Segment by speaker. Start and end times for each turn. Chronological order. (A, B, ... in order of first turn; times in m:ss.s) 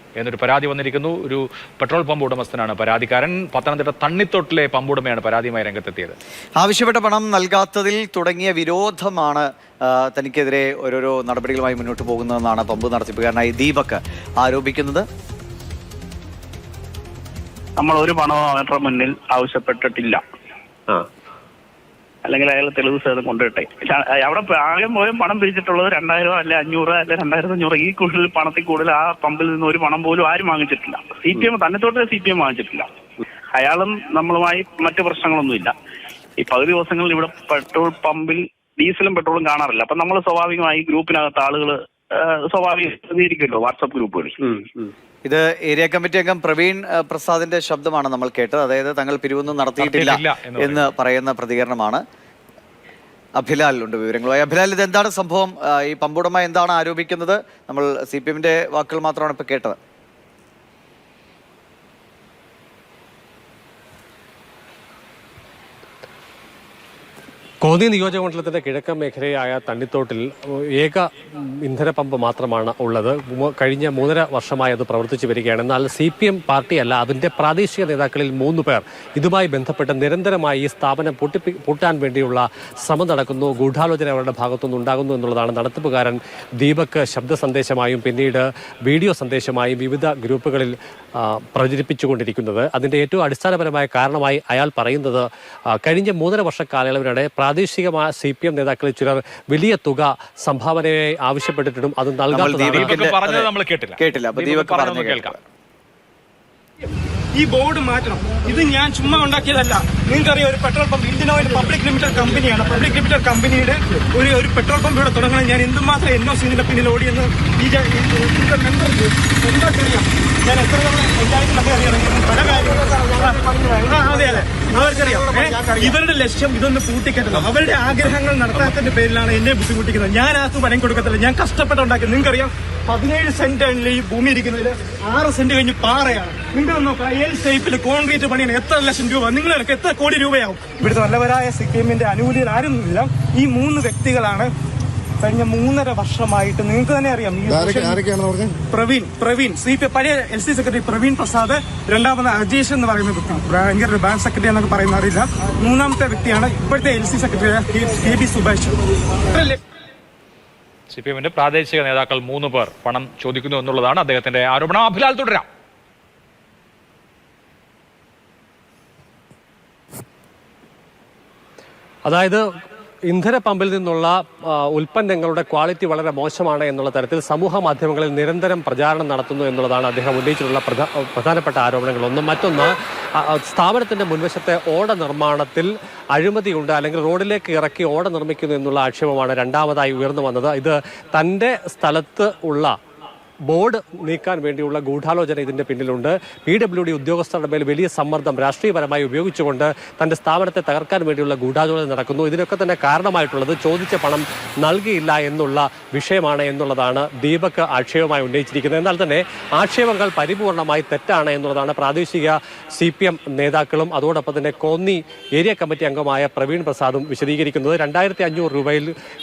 0:00.2-0:06.2 A
0:06.6-0:15.0 B
0:17.8-0:20.2 C
0:22.2-0:32.8 C
0:33.5-0:35.7 C
0:36.4-0:44.5 C
0:45.2-0:52.0 B
0:49.8-0:50.9 A
0:53.4-0:59.8 B
1:07.6-1:35.2 D
1:35.8-1:43.0 D
1:42.3-1:45.4 B
1:42.7-1:45.3 A
1:47.3-2:24.5 E
2:25.2-2:28.0 E
2:28.6-2:39.6 E
2:40.9-2:45.4 A
2:52.0-2:52.4 D
2:53.1-3:12.7 D
3:13.5-3:38.9 D